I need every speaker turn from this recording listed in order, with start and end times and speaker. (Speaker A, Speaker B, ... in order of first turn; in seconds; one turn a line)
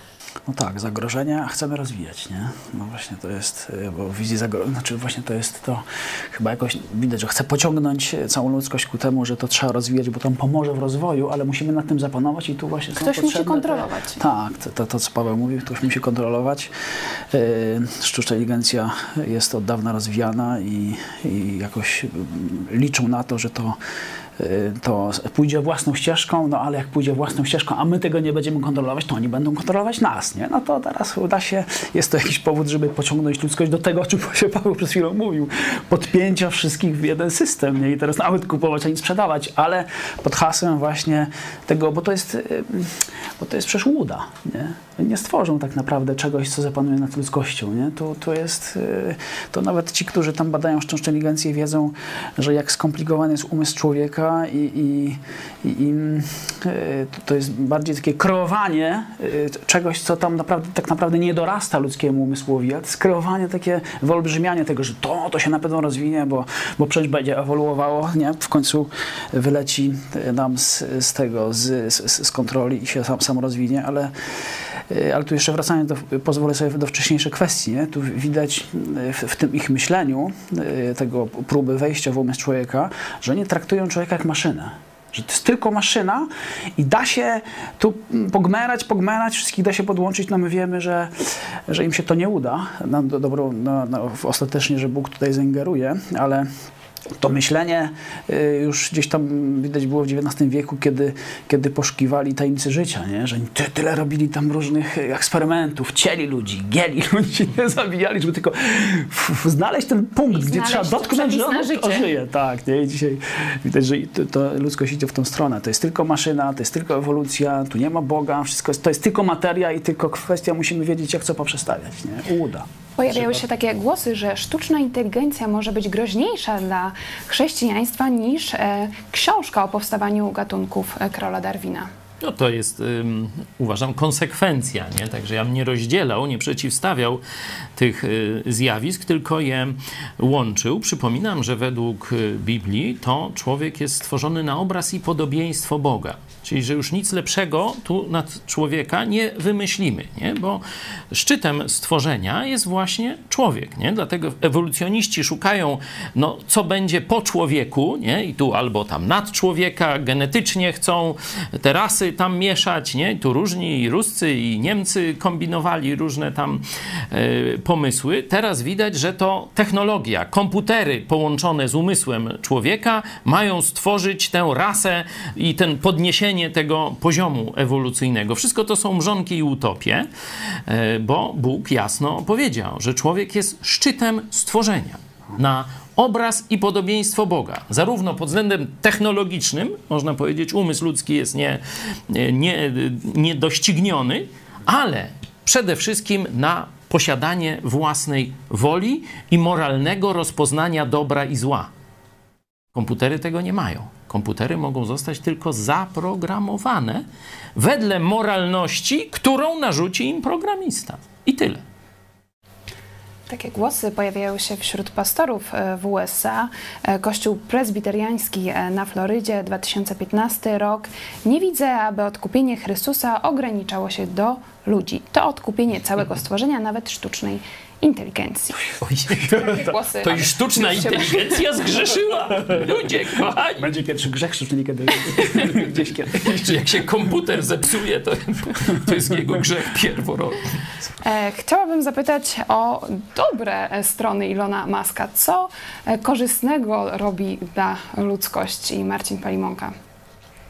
Speaker A: 0.5-16.7
Speaker B: 13.0-14.2
Speaker A: 17.3-23.8
Speaker A: 24.4-91.1
Speaker A: 91.7-96.5
Speaker A: 97.2-122.7
Speaker B: 110.3-112.1
Speaker B: 123.0-131.9
Speaker C: 132.2-137.2
Speaker C: 137.8-180.1
Speaker C: 180.7-201.7
Speaker C: 202.7-207.0
Speaker C: 207.6-211.6
Speaker B: 213.3-228.6
Speaker C: 228.8-233.7
Speaker A: 229.2-229.8
Speaker B: 229.4-231.4
Speaker A: 233.6-236.6
Speaker C: 236.2-240.4
Speaker B: 241.0-249.7